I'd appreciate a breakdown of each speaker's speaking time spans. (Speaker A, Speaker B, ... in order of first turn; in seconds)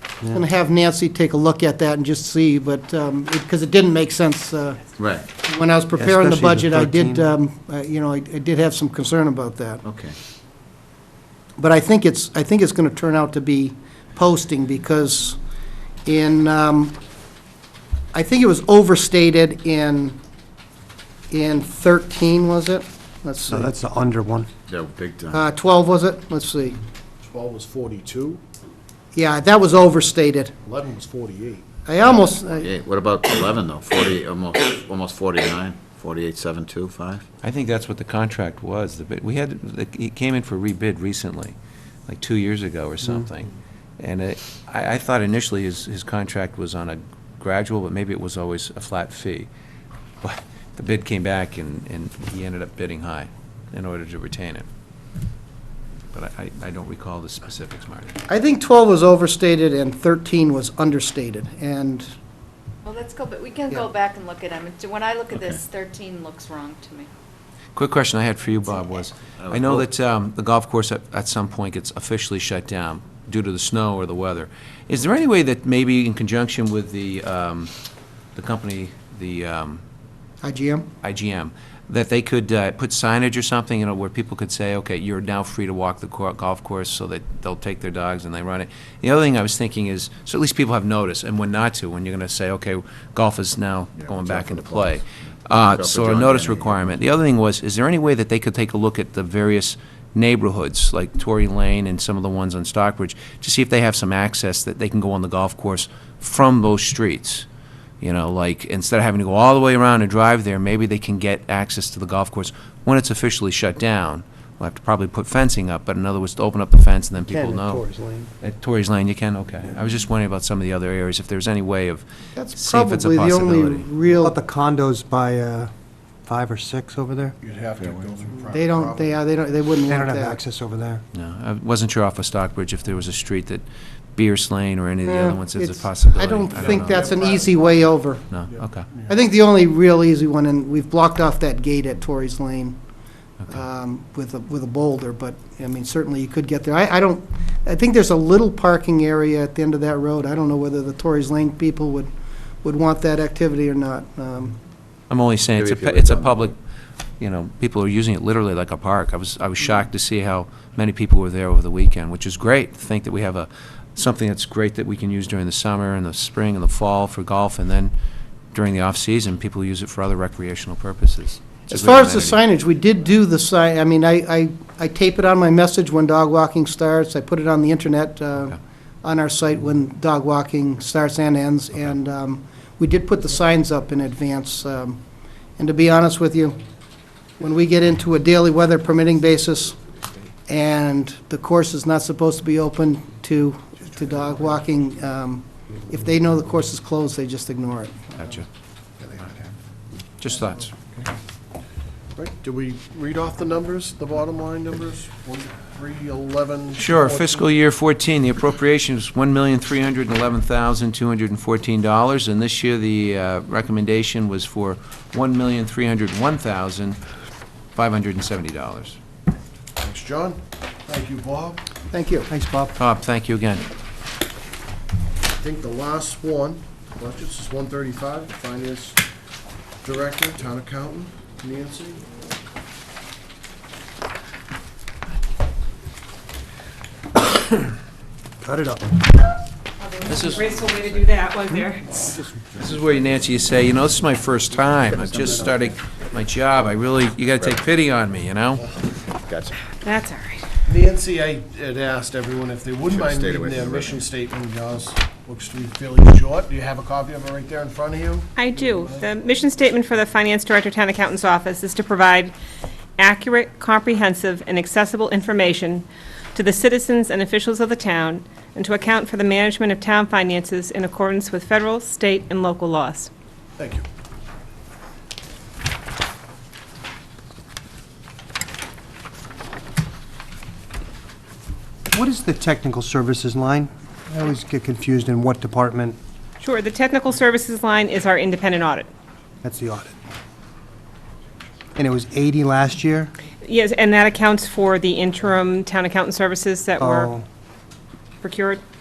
Speaker A: 0.3-9.8, 11.6-15.4, 16.1-16.9, 18.1-20.2, 21.3-23.7, 25.3-26.8, 29.1-30.5, 31.9-32.7, 58.3-62.1, 80.4-80.9, 122.3-124.4, 128.5-130.4, 135.0-138.2, 139.1-142.8, 143.5-152.1, 152.6-154.6, 171.7-185.0, 185.6-186.6, 187.4-189.8, 190.5-198.4, 221.9-222.3
Speaker B: 5.0-5.3, 9.8-10.2, 24.7-25.4, 32.5-37.2, 65.3-65.6, 69.4-69.9, 94.0-97.0, 127.8-128.1, 155.6-156.4, 244.9-245.5, 247.4-247.7, 249.2-249.5, 252.9-254.0
Speaker C: 6.0-7.3, 23.5-24.5, 117.2-118.3, 124.1-125.7, 126.2-127.3, 129.9-131.0, 222.3-222.7, 238.4-239.0, 281.9-286.0, 289.4-289.9, 291.8-293.1, 296.8-297.2
Speaker D: 27.2-28.4, 30.6-31.7, 127.4-129.2, 136.5-137.9, 138.5-139.1, 202.2-207.5, 219.8-221.6, 225.3-229.0, 229.8-232.1, 250.7-259.1, 273.6-273.9
Speaker E: 37.4-41.5, 42.1-49.5, 50.2-54.6, 56.1-58.2, 67.7-77.7, 78.3-79.8, 81.0-107.5, 108.0-117.8, 118.4-123.9, 131.1-133.6, 134.2-137.1, 138.3-138.8, 155.1-156.6, 157.2-167.9, 168.5-172.4, 198.2-198.4, 200.2-200.8, 206.8-217.0, 217.7-219.0, 222.8-223.7, 240.0-241.0, 242.5-248.7
Speaker F: 62.8-67.1
Speaker G: 239.8-242.3, 249.8-250.4, 258.4-262.3, 263.0-273.1, 286.4-288.9, 293.4-297.1, 298.2-298.6